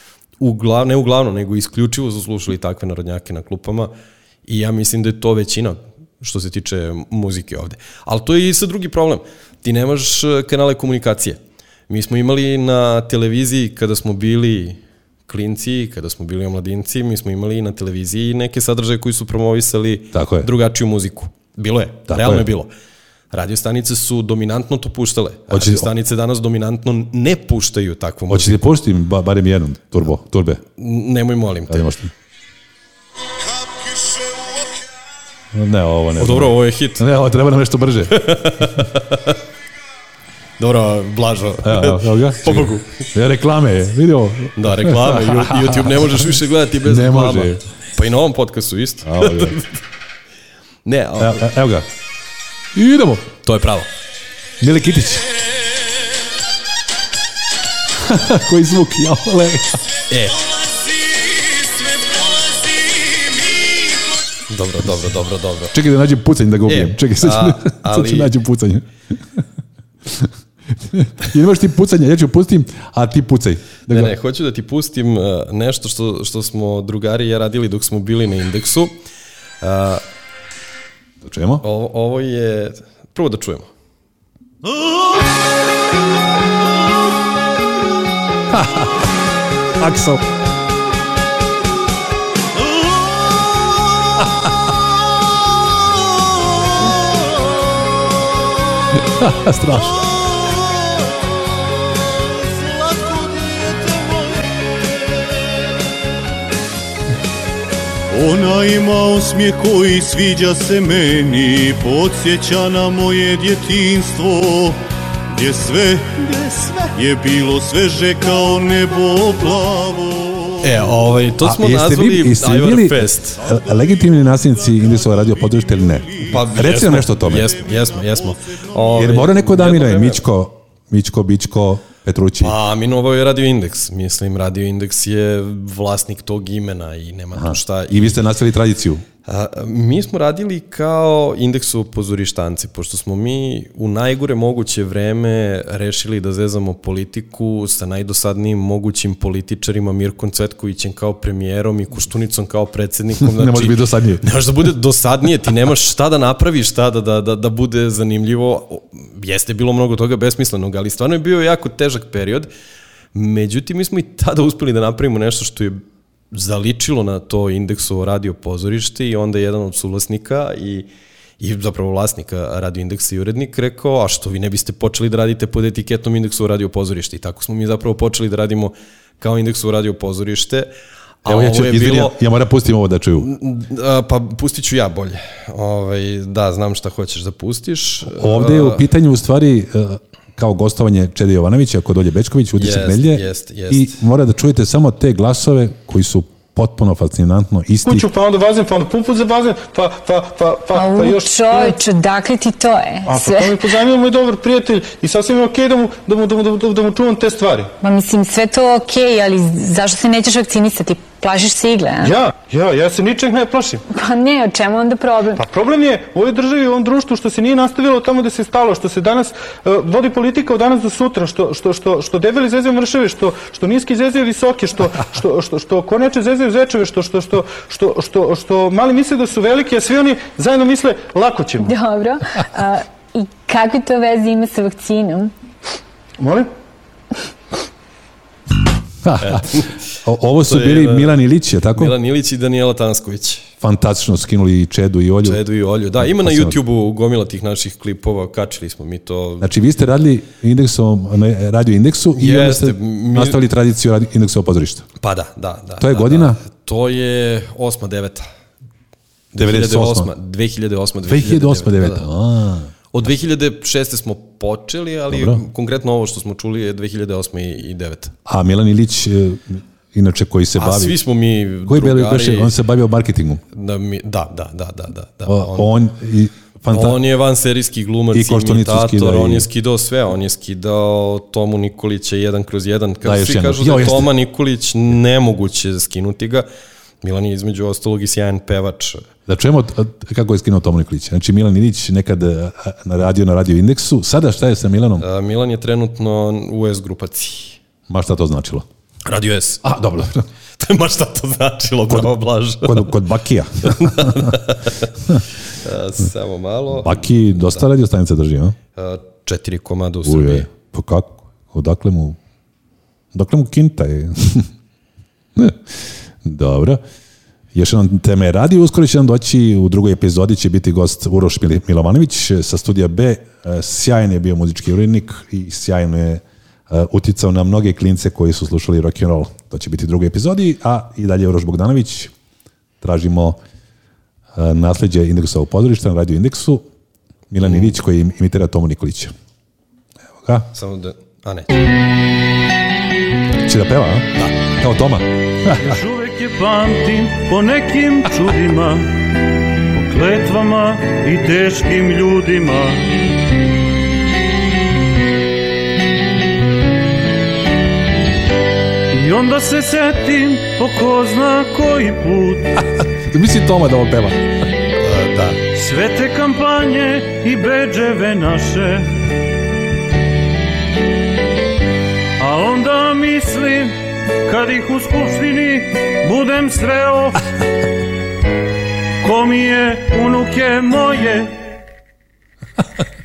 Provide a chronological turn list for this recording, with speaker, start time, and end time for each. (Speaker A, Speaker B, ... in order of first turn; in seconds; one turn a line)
Speaker A: 0.4-3.9
Speaker A: 4.5-22.7
Speaker B: 20.1-20.5
Speaker B: 22.1-22.5
Speaker A: 23.3-28.6
Speaker B: 25.5-25.9
Speaker B: 28.3-30.6
Speaker A: 30.8-31.9
Speaker B: 31.7-32.1
Speaker B: 35.5-38.2
Speaker A: 36.2-37.1
Speaker A: 38.1-39.4
Speaker A: 40.6-43.0
Speaker B: 41.6-46.1
Speaker A: 44.6-49.8
Speaker B: 46.8-47.6
Speaker B: 49.0-49.6
Speaker A: 50.9-51.5
Speaker B: 51.2-51.9
Speaker B: 52.8-53.3
Speaker A: 53.4-53.9
Speaker B: 54.6-55.3
Speaker B: 58.0-59.8
Speaker A: 60.1-60.4
Speaker A: 64.5-65.7
Speaker B: 65.7-68.9
Speaker A: 66.7-68.3
Speaker B: 70.9-74.1
Speaker A: 73.9-79.0
Speaker A: 79.6-80.0
Speaker B: 81.2-81.6
Speaker A: 81.6-83.7
Speaker B: 88.5-89.0
Speaker B: 89.8-90.2
Speaker B: 99.0-100.1
Speaker C: 102.9-103.8
Speaker C: 108.1-114.8
Speaker C: 115.3-120.6
Speaker A: 120.6-123.4
Speaker B: 121.4-127.5
Speaker A: 126.2-130.2
Speaker C: 127.7-128.7
Speaker B: 128.9-132.6
Speaker A: 132.4-138.2
Speaker B: 137.3-139.0
Speaker A: 139.3-162.5
Speaker B: 153.2-154.2
Speaker A: 163.1-165.8
Speaker A: 166.3-170.9
Speaker A: 171.4-180.7
Speaker A: 181.2-182.2
Speaker B: 181.3-183.3
Speaker A: 183.2-188.8
Speaker B: 188.1-198.1
Speaker A: 192.6-194.0
Speaker D: 197.8-201.8
Speaker E: 200.7-203.6
Speaker D: 203.1-207.7
Speaker E: 207.8-212.1
Speaker D: 212.0-213.8
Speaker E: 213.9-215.4
Speaker D: 215.3-231.7
Speaker E: 231.6-235.3
Speaker D: 236.2-236.5
Speaker B: 239.0-241.9
Speaker A: 239.2-239.8
Speaker A: 240.5-241.2
Speaker A: 241.7-243.5
Speaker B: 243.6-245.4
Speaker A: 245.2-249.5
Speaker B: 246.0-246.6
Speaker B: 249.4-254.9
Speaker A: 252.2-253.4
Speaker A: 255.0-258.2
Speaker B: 255.8-256.4
Speaker A: 259.3-262.1
Speaker B: 259.4-260.1
Speaker B: 261.1-262.7
Speaker A: 262.9-268.1
Speaker B: 265.1-265.4
Speaker B: 268.3-271.0
Speaker A: 270.6-272.6
Speaker B: 271.7-273.4
Speaker A: 273.5-275.7
Speaker B: 275.3-277.0
Speaker A: 276.7-286.5
Speaker B: 278.1-279.5
Speaker B: 283.0-284.1
Speaker A: 287.0-289.1
Speaker B: 289.3-295.1
Speaker A: 295.0-297.6
Speaker B: 297.9-298.6
Speaker A: 299.1-299.6
Speaker B: 299.6-300.2
Speaker A: 300.6-302.9
Speaker B: 302.6-304.3
Speaker A: 303.7-304.9
Speaker A: 305.6-307.6
Speaker B: 306.7-308.6
Speaker A: 308.8-310.5
Speaker B: 310.1-312.2
Speaker B: 313.1-314.5
Speaker B: 315.4-316.8
Speaker B: 317.5-332.1
Speaker B: 332.8-333.4
Speaker B: 334.4-336.6
Speaker B: 337.3-339.1
Speaker A: 337.4-337.7
Speaker A: 340.5-341.6
Speaker B: 343.4-345.8
Speaker F: 345.6-348.9
Speaker F: 349.7-353.0
Speaker F: 358.9-362.6
Speaker B: 362.6-364.2
Speaker A: 364.8-365.4
Speaker F: 365.5-368.9
Speaker F: 372.2-377.2
Speaker F: 379.0-381.4